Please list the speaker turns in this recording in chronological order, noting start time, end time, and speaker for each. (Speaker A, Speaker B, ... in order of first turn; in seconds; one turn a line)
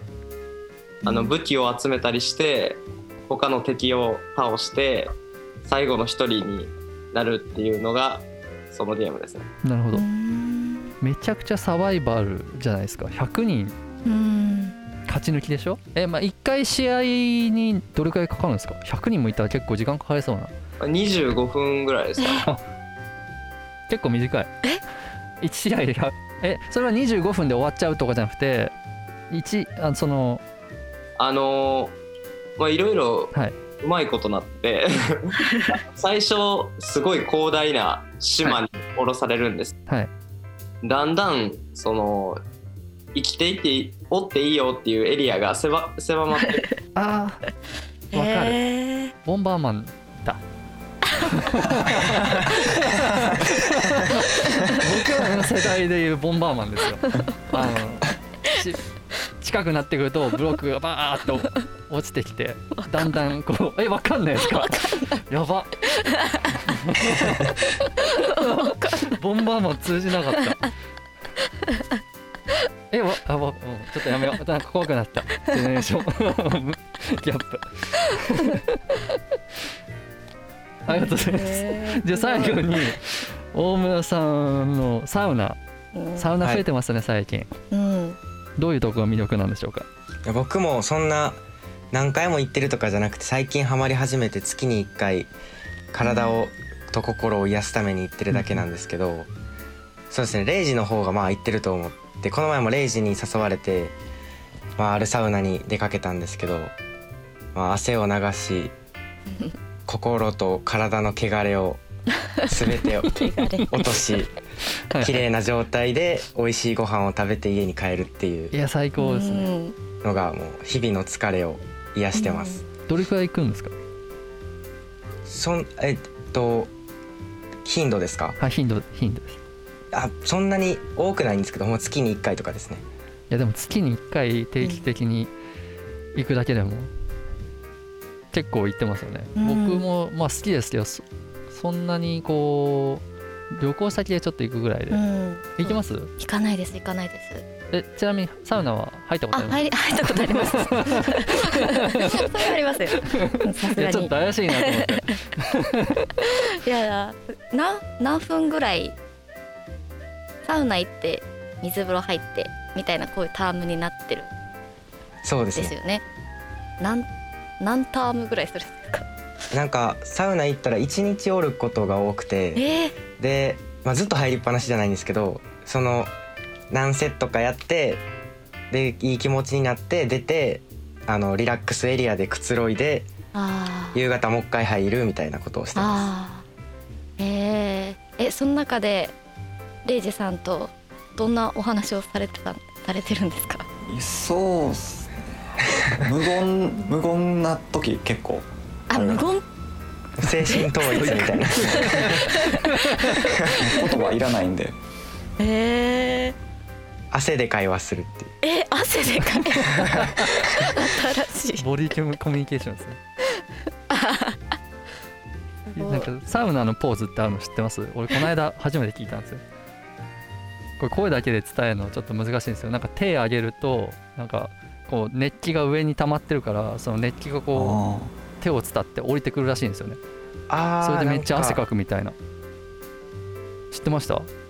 Speaker A: 1.0-1.3
Speaker B: 1.0-5.1
Speaker B: 5.6-9.5
Speaker C: 9.6-10.1
Speaker A: 9.9-10.9
Speaker C: 11.0-13.7
Speaker A: 14.0-14.8
Speaker C: 15.1-20.5
Speaker B: 20.8-22.5
Speaker C: 23.9-24.5
Speaker C: 25.4-28.7
Speaker C: 29.3-30.4
Speaker B: 31.2-32.0
Speaker B: 32.6-39.7
Speaker B: 40.8-42.4
Speaker B: 43.1-46.7
Speaker A: 46.3-46.6
Speaker C: 46.9-47.4
Speaker C: 48.1-48.6
Speaker A: 48.1-49.1
Speaker C: 49.2-50.4
Speaker C: 51.2-58.8
Speaker A: 54.5-54.8
Speaker A: 57.2-57.5
Speaker C: 59.4-65.8
Speaker A: 62.7-63.1
Speaker A: 64.6-65.2
Speaker A: 65.9-66.6
Speaker C: 66.6-70.7
Speaker A: 68.0-69.2
Speaker C: 72.9-79.0
Speaker C: 80.8-85.6
Speaker A: 80.9-82.9
Speaker A: 85.9-86.3
Speaker C: 86.2-87.5
Speaker A: 87.7-88.2
Speaker C: 88.6-89.9
Speaker D: 90.2-91.4
Speaker D: 91.9-95.3
Speaker D: 95.9-99.3
Speaker A: 96.0-96.4
Speaker C: 98.3-98.6
Speaker D: 100.1-103.9
Speaker D: 104.8-106.7
Speaker D: 107.5-108.7
Speaker D: 109.9-111.8
Speaker D: 112.4-113.1
Speaker A: 113.0-113.8
Speaker D: 113.7-114.3
Speaker C: 114.9-115.2
Speaker D: 115.0-118.5
Speaker C: 118.5-119.5
Speaker A: 119.0-119.7
Speaker D: 120.0-122.7
Speaker A: 122.1-122.6
Speaker C: 122.9-123.7
Speaker D: 125.3-126.7
Speaker D: 127.6-128.3
Speaker C: 128.4-129.4
Speaker D: 129.9-132.8
Speaker C: 133.3-135.3
Speaker C: 136.1-136.9
Speaker C: 138.3-145.0
Speaker A: 139.3-139.8
Speaker A: 144.9-147.4
Speaker C: 145.6-146.1
Speaker C: 147.7-152.3
Speaker A: 149.3-155.2
Speaker C: 153.0-156.1
Speaker A: 156.2-158.9
Speaker A: 160.4-164.3
Speaker D: 165.2-165.7
Speaker A: 165.5-166.0
Speaker A: 166.8-167.1
Speaker A: 167.6-169.1
Speaker D: 169.5-172.6
Speaker A: 172.5-172.9
Speaker D: 173.2-176.1
Speaker D: 176.7-178.0
Speaker D: 178.7-183.1
Speaker A: 183.3-184.0
Speaker D: 183.9-186.1
Speaker A: 185.8-186.4
Speaker A: 187.2-189.1
Speaker A: 189.8-193.7
Speaker E: 193.8-199.2
Speaker A: 198.9-199.4
Speaker D: 200.2-202.4
Speaker A: 200.5-200.8
Speaker C: 200.9-203.2
Speaker A: 201.7-203.3
Speaker E: 203.5-204.7
Speaker A: 205.4-206.3
Speaker D: 207.1-208.3
Speaker A: 208.4-209.9
Speaker A: 210.4-211.6
Speaker C: 211.6-213.0
Speaker A: 213.9-214.4
Speaker A: 215.7-216.1
Speaker C: 215.8-219.4
Speaker C: 220.8-227.8
Speaker E: 227.5-228.1
Speaker C: 228.4-230.0
Speaker D: 230.5-231.6
Speaker C: 230.8-232.1
Speaker C: 233.7-234.3